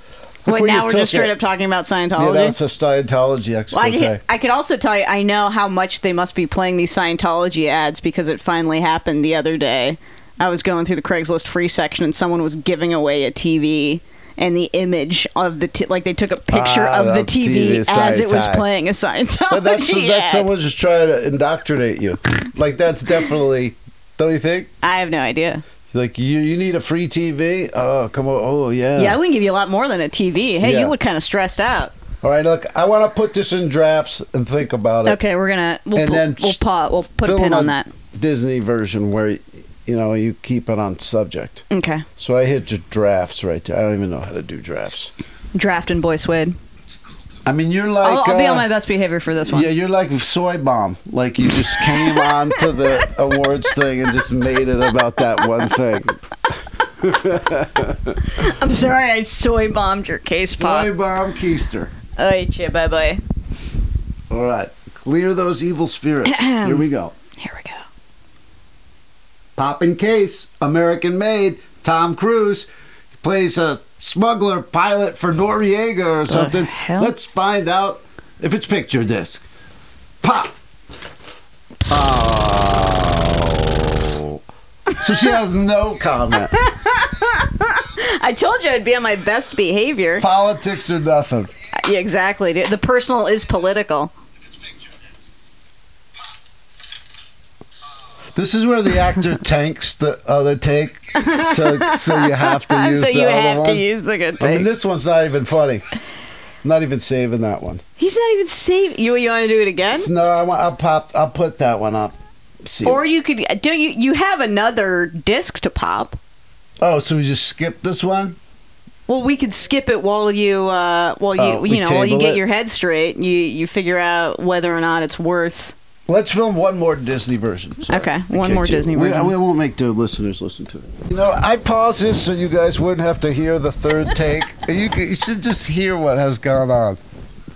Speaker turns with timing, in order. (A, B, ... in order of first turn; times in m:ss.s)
0:00.4-0:01.4 A
0:00.4-0:02.6 B
0:02.2-0:04.2 A
0:03.7-0:20.5 B
0:16.5-0:18.6 A
0:19.5-0:24.7 A
0:24.8-0:25.6 B
0:25.9-0:29.2 A
0:29.0-0:31.9 B
0:30.6-0:30.9 A
0:32.2-0:35.2 A
0:35.0-0:37.9 B
0:35.9-0:36.6 A
0:37.2-0:41.6 A
0:41.7-0:42.0 B
0:42.2-0:45.1 A
0:45.5-0:46.6 B
0:47.4-0:48.7 A
0:48.0-0:49.7 B
0:49.5-0:58.3 A
0:51.4-0:53.1 B
0:55.4-0:55.7 B
0:58.2-1:00.9 B
1:00.5-1:01.9 A
1:02.2-1:03.2 B
1:04.3-1:07.1 A
1:06.3-1:06.8 B
1:07.4-1:07.8 B
1:09.6-1:12.7 A
1:13.2-1:19.4 A
1:16.3-1:17.1 B
1:20.2-1:20.5 A
1:21.9-1:24.4 A
1:25.0-1:26.6 A
1:26.5-1:30.2 B
1:30.2-1:31.5 A
1:31.8-1:34.1 B
1:38.3-1:43.8 A
1:41.1-1:44.7 B
1:44.4-1:45.8 A
1:46.6-1:47.8 A
1:48.0-1:50.1 B
1:50.0-1:53.0 A
1:52.8-1:56.2 B
1:56.8-1:58.4 A
1:59.1-2:05.7 B
2:01.4-2:02.4 A
2:06.1-2:17.0 A
2:07.9-2:09.3 B